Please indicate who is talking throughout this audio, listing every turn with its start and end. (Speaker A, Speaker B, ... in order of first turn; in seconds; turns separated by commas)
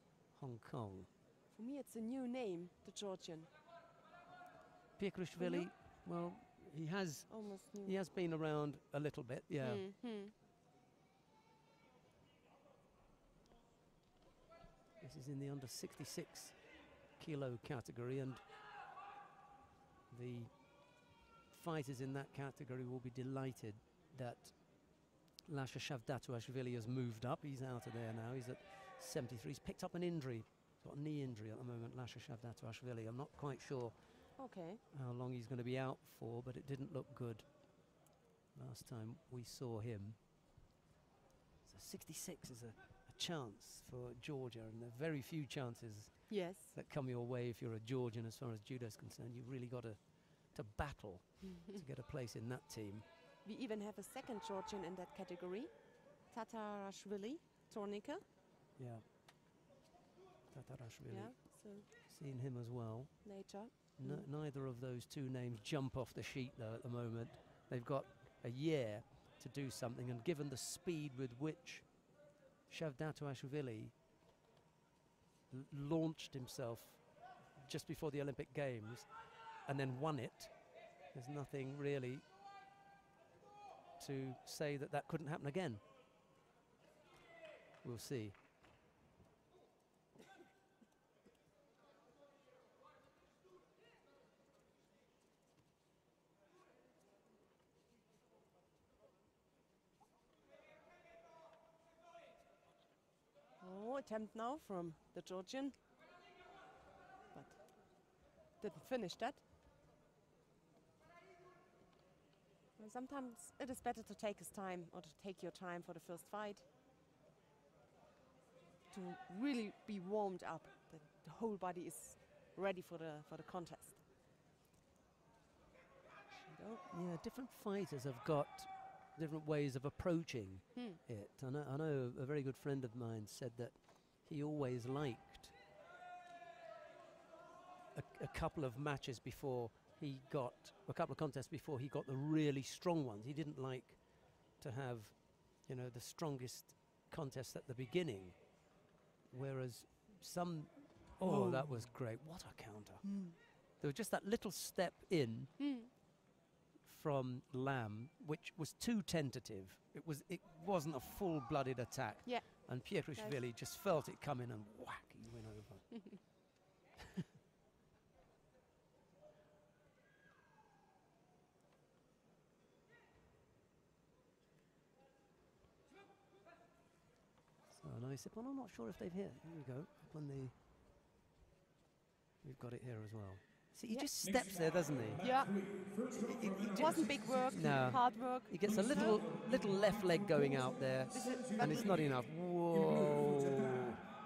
Speaker A: 0.3-1.1, Speaker B: 1.5-3.5, Speaker A: 5.0-9.9, Speaker B: 5.4-5.7, Speaker B: 7.3-8.0, Speaker B: 9.6-10.3, Speaker A: 15.0-18.5, Speaker A: 20.1-37.9, Speaker B: 34.4-34.8, Speaker A: 38.5-40.2, Speaker A: 41.6-53.0, Speaker B: 46.3-46.8, Speaker B: 53.4-58.2, Speaker A: 58.8-59.1, Speaker A: 60.5-72.1, Speaker B: 61.1-61.9, Speaker B: 63.2-64.3, Speaker A: 72.7-74.0, Speaker A: 75.5-82.2, Speaker A: 84.0-85.8, Speaker A: 87.8-88.4, Speaker B: 103.6-105.8, Speaker B: 107.3-109.4, Speaker B: 112.8-116.7, Speaker B: 118.9-124.0, Speaker B: 126.3-126.8, Speaker A: 126.9-135.6, Speaker B: 130.7-131.0, Speaker A: 137.9-148.7, Speaker A: 149.3-155.6, Speaker B: 153.0-153.4, Speaker B: 155.6-155.9, Speaker A: 156.8-166.6, Speaker B: 162.2-163.4, Speaker A: 177.7-180.6, Speaker A: 182.4-193.9, Speaker B: 185.2-185.6, Speaker B: 186.7-189.2, Speaker B: 191.1-192.0